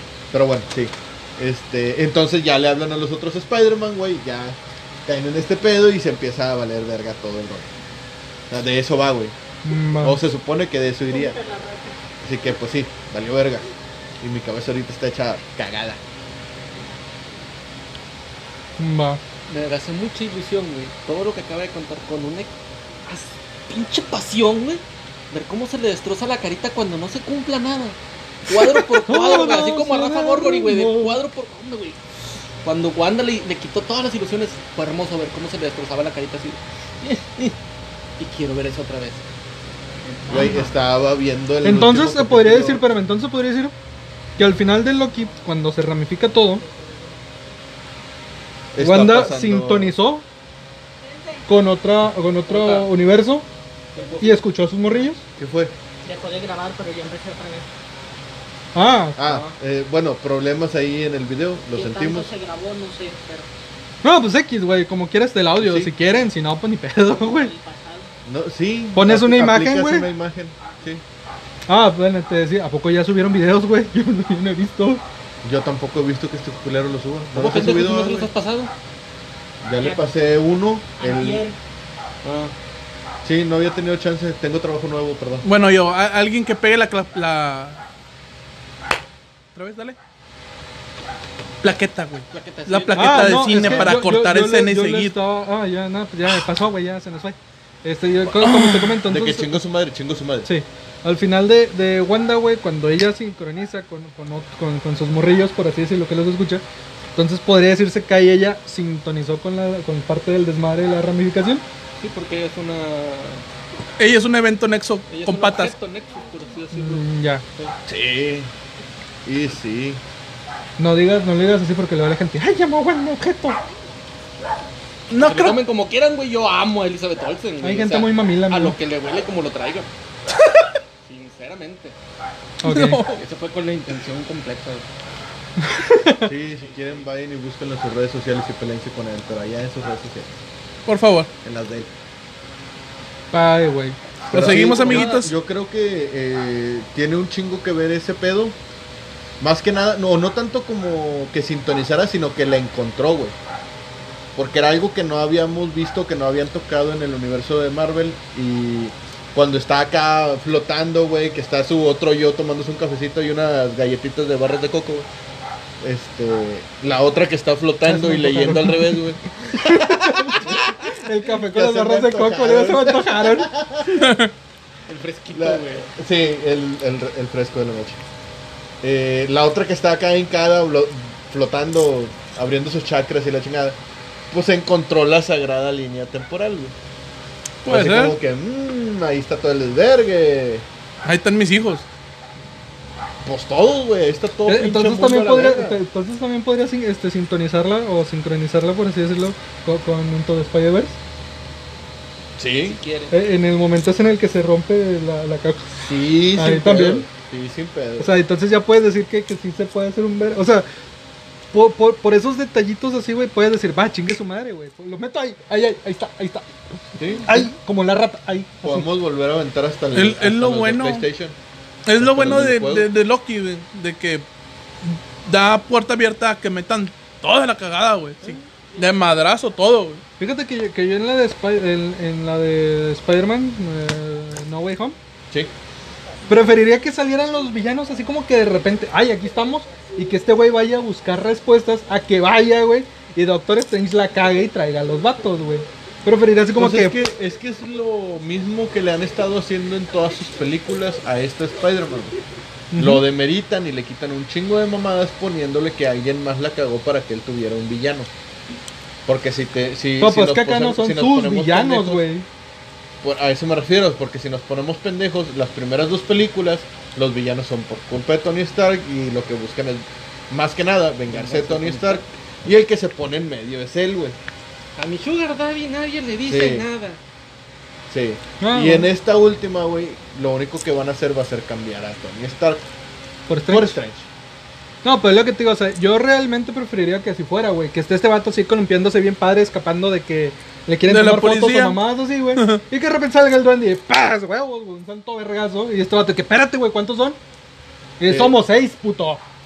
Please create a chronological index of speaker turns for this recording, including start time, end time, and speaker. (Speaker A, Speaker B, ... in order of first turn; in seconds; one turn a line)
Speaker A: 0.3-7.7
Speaker A: 8.5-9.3
Speaker B: 9.7-10.2
Speaker A: 10.0-11.4
Speaker C: 11.1-12.1
Speaker A: 12.2-13.7
Speaker A: 14.2-16.0
Speaker B: 18.8-19.2
Speaker D: 19.5-22.5
Speaker D: 23.1-32.0
Speaker B: 29.0-31.2
Speaker D: 32.6-37.6
Speaker D: 38.2-39.2
Speaker C: 40.1-40.7
Speaker A: 40.3-42.9
Speaker B: 41.6-43.7
Speaker B: 44.4-46.6
Speaker C: 46.5-47.2
Speaker A: 48.7-49.9
Speaker B: 48.8-50.2
Speaker C: 51.0-51.5
Speaker B: 51.5-53.5
Speaker D: 52.5-52.9
Speaker D: 54.0-54.4
Speaker C: 54.0-54.3
Speaker B: 54.2-55.2
Speaker A: 55.4-55.7
Speaker C: 56.0-57.7
Speaker B: 58.8-59.2
Speaker A: 59.2-62.3
Speaker D: 59.2-59.5
Speaker C: 61.6-63.6
Speaker B: 64.0-67.5
Speaker A: 65.6-65.9
Speaker C: 67.1-68.1
Speaker A: 68.3-71.0
Speaker B: 69.0-70.1
Speaker B: 71.7-75.0
Speaker A: 75.4-78.3
Speaker D: 77.3-78.7
Speaker A: 79.6-81.5
Speaker C: 79.8-80.0
Speaker C: 81.0-81.6
Speaker D: 82.2-82.5
Speaker A: 83.2-85.5
Speaker E: 85.4-87.8
Speaker E: 89.5-90.0
Speaker E: 91.6-95.2
Speaker D: 92.3-94.0
Speaker B: 93.0-99.6
Speaker E: 98.4-99.0
Speaker A: 99.1-100.5
Speaker B: 100.5-106.6
Speaker B: 107.2-111.6
Speaker D: 112.0-113.4
Speaker E: 114.0-115.8
Speaker D: 115.1-117.7
Speaker B: 116.7-117.4
Speaker A: 117.9-118.5
Speaker A: 119.2-120.0
Speaker B: 120.8-123.6
Speaker E: 125.1-125.6
Speaker D: 125.1-129.9
Speaker B: 127.6-128.8
Speaker D: 131.0-132.0
Speaker B: 132.6-133.1
Speaker E: 132.6-133.2
Speaker D: 133.1-134.9
Speaker B: 135.6-136.3
Speaker A: 136.2-140.3
Speaker E: 140.9-141.3
Speaker A: 141.4-141.9
Speaker B: 143.3-144.5
Speaker A: 144.2-148.6
Speaker E: 144.3-145.3
Speaker D: 144.6-145.1
Speaker A: 149.4-153.4
Speaker A: 154.4-165.1
Speaker A: 165.8-174.1
Speaker B: 167.9-169.0
Speaker B: 169.5-173.5
Speaker E: 173.8-174.3
Speaker D: 174.9-175.9
Speaker A: 175.3-178.0
Speaker A: 178.8-186.8
Speaker E: 187.6-188.2
Speaker A: 187.7-190.7
Speaker E: 191.0-191.9
Speaker A: 193.2-195.8
Speaker B: 194.5-201.0
Speaker A: 202.4-202.8
Speaker D: 202.6-203.1
Speaker B: 203.1-205.8
Speaker A: 205.8-208.1
Speaker B: 206.3-207.1
Speaker B: 208.0-210.7
Speaker B: 211.5-216.6
Speaker A: 217.0-217.5
Speaker B: 217.2-218.9
Speaker A: 218.6-221.4
Speaker E: 219.9-221.1
Speaker E: 221.9-224.3
Speaker A: 222.0-222.9
Speaker E: 224.8-230.0
Speaker B: 230.2-235.0
Speaker B: 236.3-247.0
Speaker A: 246.6-252.2
Speaker B: 252.7-253.0
Speaker A: 252.8-258.1
Speaker A: 259.1-262.1
Speaker B: 260.0-262.3
Speaker A: 263.0-274.2
Speaker D: 271.1-272.1
Speaker D: 274.8-277.0
Speaker A: 276.3-276.7
Speaker A: 277.9-282.7
Speaker B: 278.4-278.9
Speaker B: 283.3-283.8
Speaker A: 283.5-284.1
Speaker B: 284.8-297.2
Speaker E: 290.9-291.8
Speaker E: 292.4-292.6
Speaker B: 298.0-299.2
Speaker A: 298.1-298.4